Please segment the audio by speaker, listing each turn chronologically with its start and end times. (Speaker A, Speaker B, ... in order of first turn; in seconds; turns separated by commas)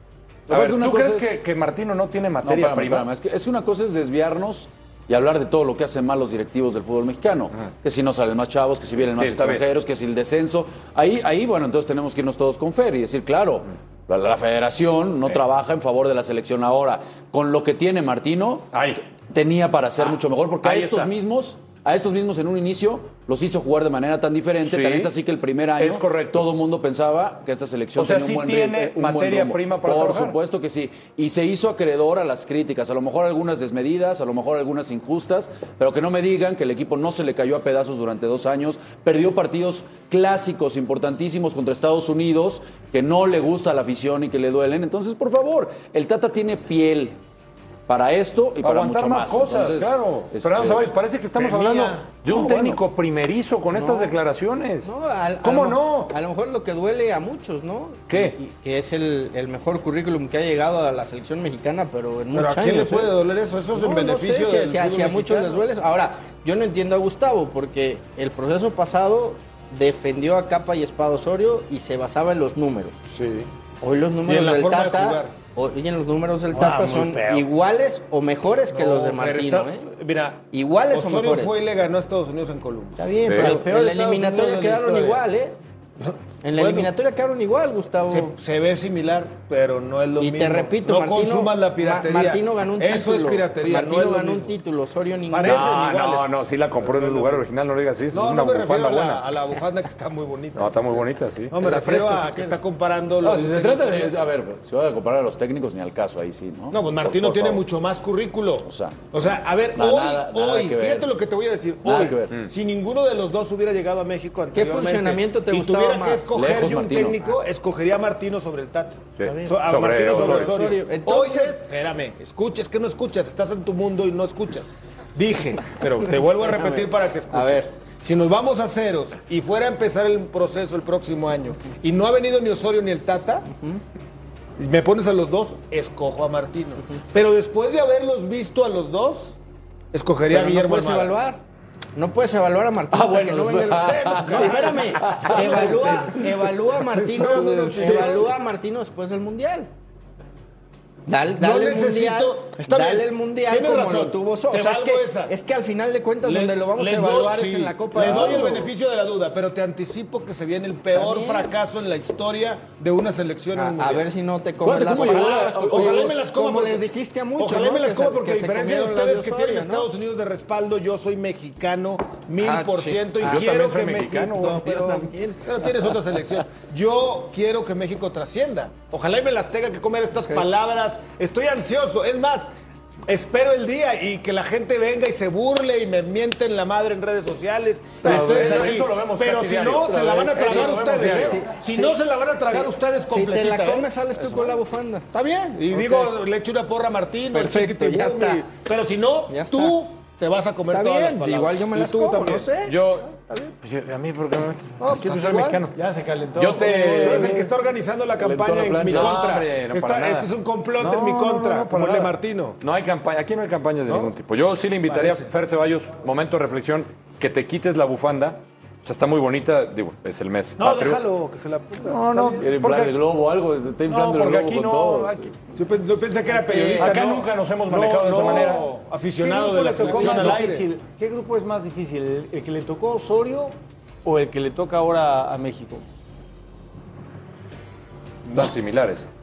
Speaker A: 0.5-3.1, Speaker B: 0.5-1.4, Speaker B: 2.4-18.7, Speaker A: 9.1-9.6, Speaker A: 18.7-19.0, Speaker B: 19.3-47.1, Speaker A: 20.6-21.1, Speaker A: 24.6-25.1, Speaker A: 25.8-26.4, Speaker A: 28.0-30.4, Speaker B: 47.9-50.9, Speaker A: 48.6-54.9, Speaker C: 51.4-52.0, Speaker B: 52.3-52.8, Speaker D: 53.7-54.1, Speaker D: 54.8-63.1, Speaker A: 55.4-56.1, Speaker A: 58.1-58.4, Speaker C: 62.3-65.7, Speaker D: 63.7-73.0, Speaker C: 73.1-73.4, Speaker D: 73.8-79.9, Speaker C: 74.2-75.3, Speaker C: 76.5-77.5, Speaker C: 78.7-83.1, Speaker D: 80.5-81.5, Speaker D: 83.0-85.6, Speaker A: 83.3-83.6, Speaker E: 83.4-85.2, Speaker C: 86.0-86.9, Speaker D: 86.4-88.3, Speaker C: 88.0-94.6, Speaker D: 90.2-95.8, Speaker C: 95.3-97.5, Speaker A: 95.4-99.2, Speaker C: 98.1-104.2, Speaker A: 100.6-101.6, Speaker D: 101.6-102.5, Speaker B: 103.2-107.5, Speaker C: 106.7-133.5, Speaker B: 108.6-109.0, Speaker B: 109.7-111.1, Speaker B: 111.8-112.4, Speaker D: 114.5-116.8, Speaker B: 116.3-117.2, Speaker A: 119.2-120.7, Speaker D: 119.2-121.6, Speaker D: 126.5-127.7, Speaker C: 134.6-139.4, Speaker C: 139.9-141.2, Speaker D: 140.3-141.4, Speaker D: 141.9-149.7, Speaker B: 142.9-146.1, Speaker C: 143.8-148.3, Speaker D: 151.1-158.7, Speaker C: 151.3-155.3, Speaker C: 156.2-164.1, Speaker D: 160.9-161.5, Speaker D: 163.6-169.9, Speaker B: 164.6-166.2, Speaker C: 164.9-182.5, Speaker D: 172.4-173.5, Speaker A: 173.2-174.8, Speaker D: 174.4-175.5, Speaker C: 183.1-194.6, Speaker A: 188.0-191.4, Speaker D: 188.1-188.7, Speaker D: 190.3-195.1, Speaker C: 195.1-203.6, Speaker D: 197.3-198.4, Speaker D: 199.3-199.8, Speaker D: 200.7-202.8, Speaker A: 202.6-203.1, Speaker A: 203.6-205.8, Speaker C: 204.8-205.6, Speaker E: 205.7-207.4, Speaker A: 206.4-207.4, Speaker C: 207.0-212.6, Speaker B: 208.2-209.2, Speaker A: 208.8-210.3, Speaker A: 210.8-221.0, Speaker C: 213.9-214.1, Speaker C: 214.8-215.3, Speaker C: 220.6-222.4, Speaker A: 221.8-223.0, Speaker B: 222.4-225.3, Speaker A: 223.9-225.2, Speaker C: 225.6-230.7, Speaker A: 226.5-228.7, Speaker D: 226.5-226.8, Speaker E: 229.2-235.8, Speaker A: 238.3-239.1